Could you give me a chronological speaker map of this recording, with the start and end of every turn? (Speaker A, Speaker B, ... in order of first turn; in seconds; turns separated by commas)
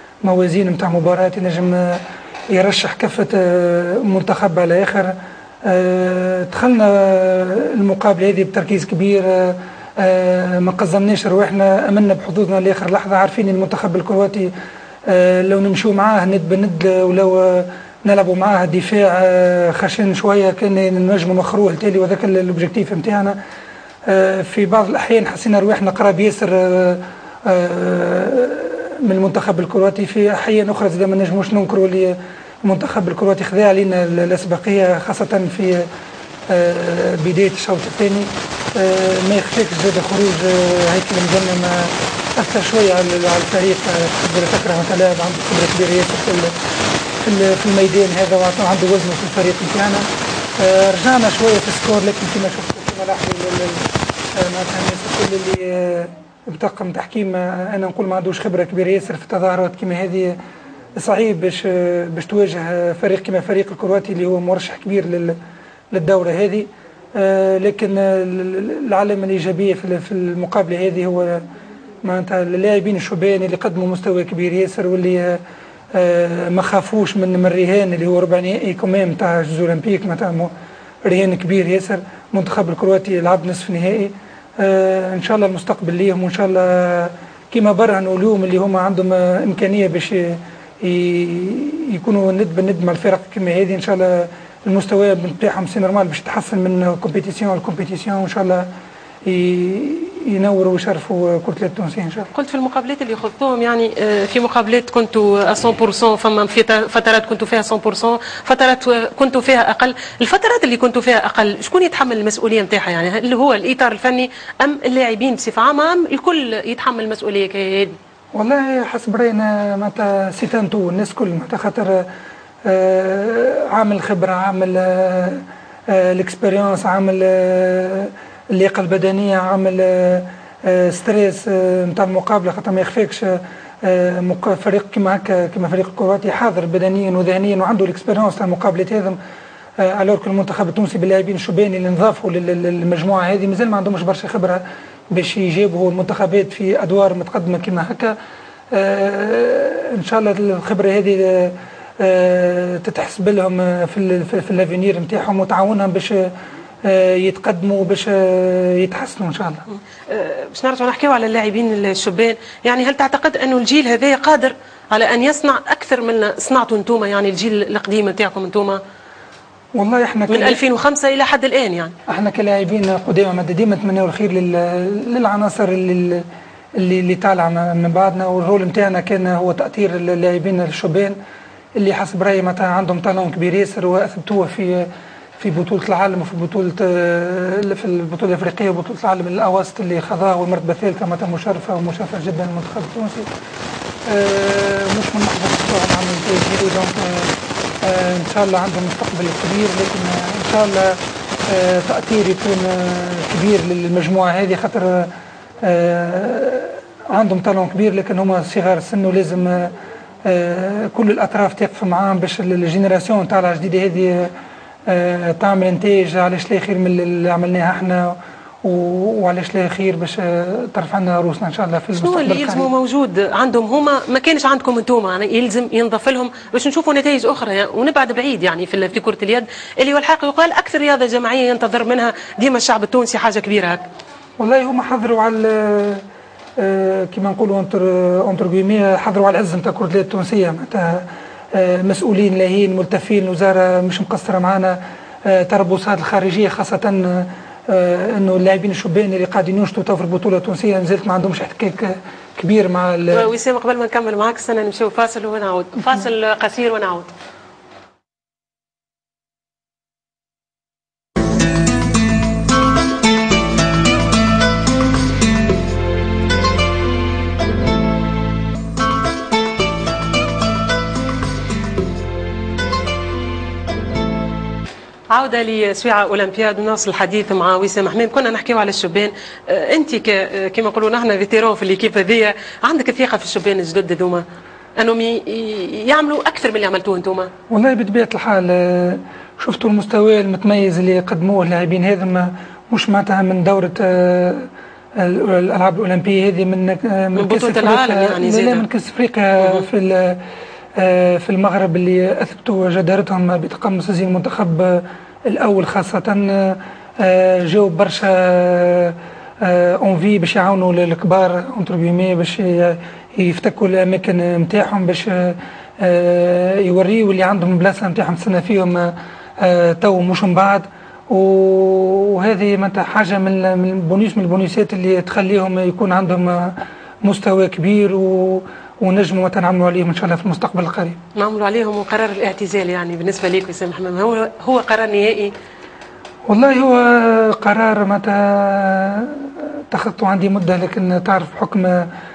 Speaker A: 0.2-5.1, Speaker A: 5.6-14.5, Speaker A: 15.1-23.4, Speaker A: 24.1-35.9, Speaker A: 36.5-46.5, Speaker A: 47.2-50.1, Speaker A: 50.6-60.4, Speaker A: 61.0-65.4, Speaker A: 65.9-71.4, Speaker A: 72.0-75.4, Speaker A: 75.9-80.5, Speaker A: 81.0-98.7, Speaker A: 99.2-102.3, Speaker B: 102.3-118.0, Speaker A: 118.3-122.1, Speaker A: 122.7-139.2, Speaker A: 139.8-148.2, Speaker A: 148.7-156.3, Speaker A: 156.8-159.7, Speaker B: 160.1-168.8, Speaker A: 169.8-170.6, Speaker B: 170.3-171.9, Speaker A: 172.1-176.2, Speaker A: 176.8-181.2, Speaker A: 181.8-193.3, Speaker A: 194.1-205.1, Speaker A: 205.6-209.7, Speaker A: 210.2-214.3, Speaker A: 214.9-222.7, Speaker B: 221.9-233.8, Speaker A: 234.4-236.0, Speaker A: 236.6-253.3, Speaker B: 253.1-257.1, Speaker B: 275.1-284.2, Speaker B: 284.8-287.3, Speaker A: 287.5-300.2, Speaker B: 297.1-298.6, Speaker B: 299.4-299.6, Speaker A: 300.8-331.0, Speaker B: 331.1-335.3, Speaker A: 336.3-341.9